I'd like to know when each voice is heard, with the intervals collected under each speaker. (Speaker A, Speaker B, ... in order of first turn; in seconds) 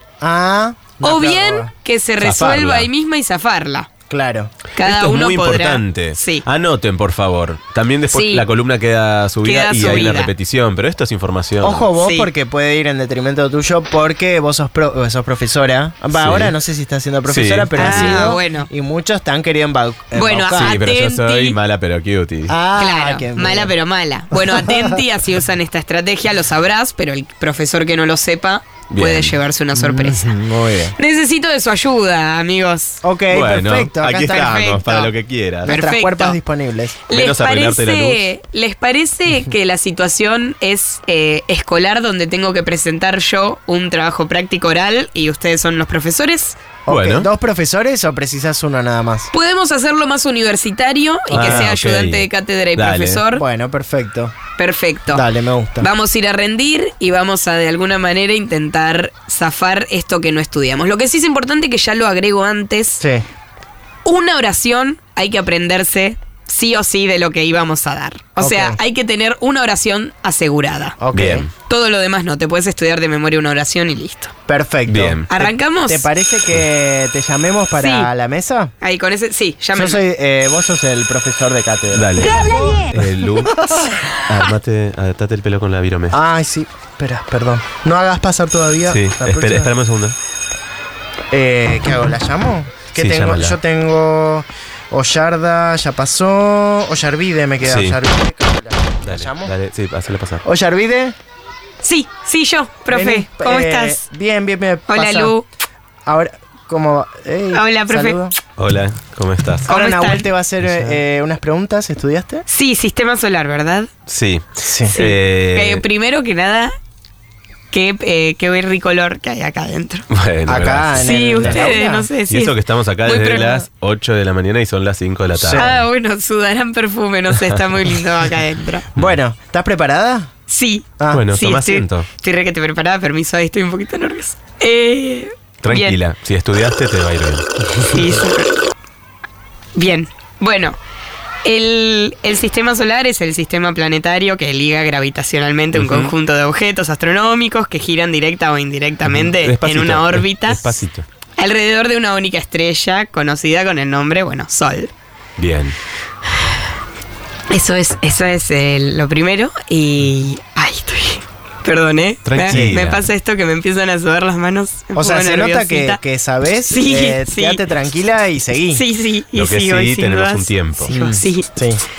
Speaker A: 0.2-1.7, 4.1-4.5, 11.6-20.8, 22.5-23.7, 24.3-25.0, 29.7-30.9, 33.0-34.5, 35.6-37.0, 46.9-49.3, 51.3-51.7, 53.3-54.3, 55.1-55.9, 63.0-63.2, 68.4-68.8, 71.0-71.5, 74.5-78.7, 79.7-84.0, 86.1-89.7, 91.3-99.5, 100.4-101.1, 102.9-105.3, 106.0-108.3, 109.7-112.5, 114.6-115.0, 120.5-122.1, 125.3-125.8, 128.9-130.3, 131.0-131.2, 162.4-162.8, 164.9-168.8, 170.9-171.8
Speaker B: 1.0-3.9, 4.7-6.4, 8.1-8.4, 9.4-10.3, 12.0-12.3, 17.8-18.7, 20.1-21.6, 22.7-33.0, 34.2-35.1, 35.7-36.4, 37.1-46.6, 49.3-53.4, 54.6-63.0, 64.0-71.0, 71.6-74.3, 75.3-76.1, 77.7-78.1, 78.8-80.0, 101.8-104.0, 104.9-105.5, 107.5-108.2, 109.7-110.3, 112.5-113.9, 114.9-116.7, 117.7-120.0, 121.0-123.7, 125.5-128.9, 130.5-136.0, 137.9-138.5, 139.7-140.8, 141.4-150.8, 151.3-154.9, 157.5-166.0, 166.7-167.6, 168.7-171.5
Speaker C: 2.2-2.9, 4.8-11.9, 16.1-16.5, 17.3-18.4, 20.5-22.5, 28.9-29.3, 33.3-35.7, 37.1-38.3, 46.9-47.3, 51.3-53.2, 71.1-71.5, 74.9-75.3, 81.9-83.6, 84.2-86.2, 88.9-90.2, 92.9-93.6, 97.6-98.0, 99.0-100.4, 108.6-109.7, 110.6-111.0, 114.1-115.8, 120.1-121.8, 122.3-125.8, 131.1-132.1, 135.6-138.0, 145.7-146.1, 149.0-151.1, 155.4-155.8, 162.2-163.1, 169.3-170.9